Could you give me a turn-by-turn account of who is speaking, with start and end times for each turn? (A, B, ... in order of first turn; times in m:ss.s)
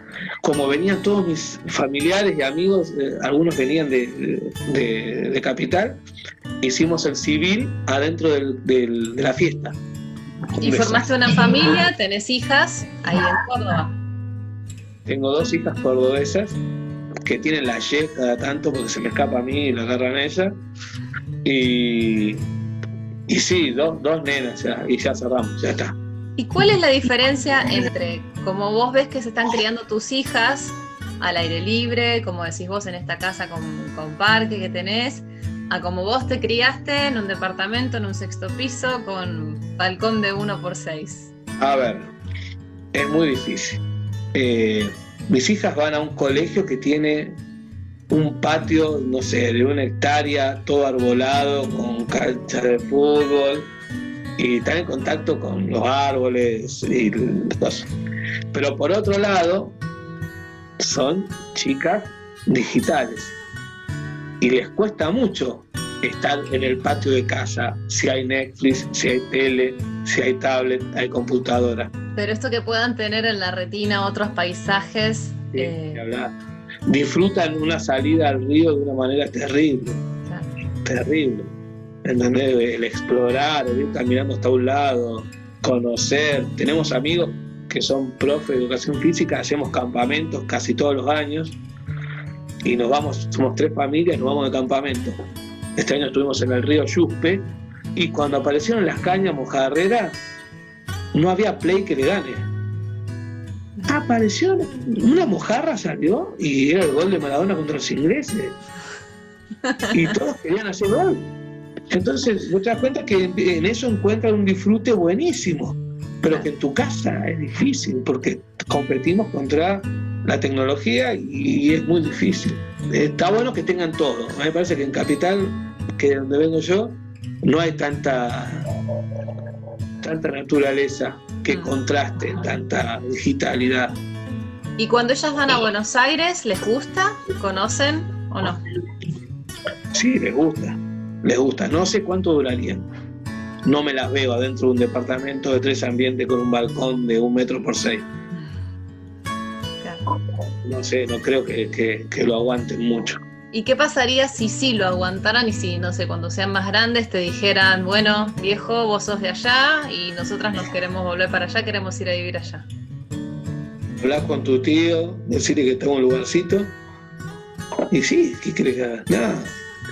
0:00.4-0:06.0 A
0:06.6-0:09.8 A
0:10.6-0:11.8 A
0:10.6-0:14.0 B
0:15.0-0:16.6 A
0:17.2-0:20.5 A
0:21.4-0:22.4 A
0:23.3-0:26.0 A
0:26.4-0:41.3 B
0:41.6-0:42.1 A
0:42.9-0:43.8 A
0:44.3-0:47.4 A
0:48.1-0:53.7 A
0:54.4-0:57.9 A
0:58.5-0:59.8 A
1:00.8-1:03.4 A
1:04.4-1:11.9 A
1:12.2-1:16.0 B
1:15.5-1:16.3 A
1:16.9-1:20.0 A
1:20.2-1:20.5 B
1:20.8-1:21.5 A
1:22.0-1:31.6 A
1:32.6-1:35.1 A
1:35.8-1:40.2 A
1:41.1-1:42.5 A
1:43.9-1:48.6 A
1:49.6-1:49.9 B
1:49.9-1:51.3 A
1:51.9-2:08.6 A
2:10.0-2:14.0 A
2:11.5-2:11.7 B
2:14.8-2:18.6 B
2:19.9-2:22.8 A
2:23.6-2:28.1 A
2:29.8-2:30.0 B
2:30.6-2:33.2 A
2:33.5-2:42.7 B
2:44.0-2:46.7 A
2:47.9-2:49.5 A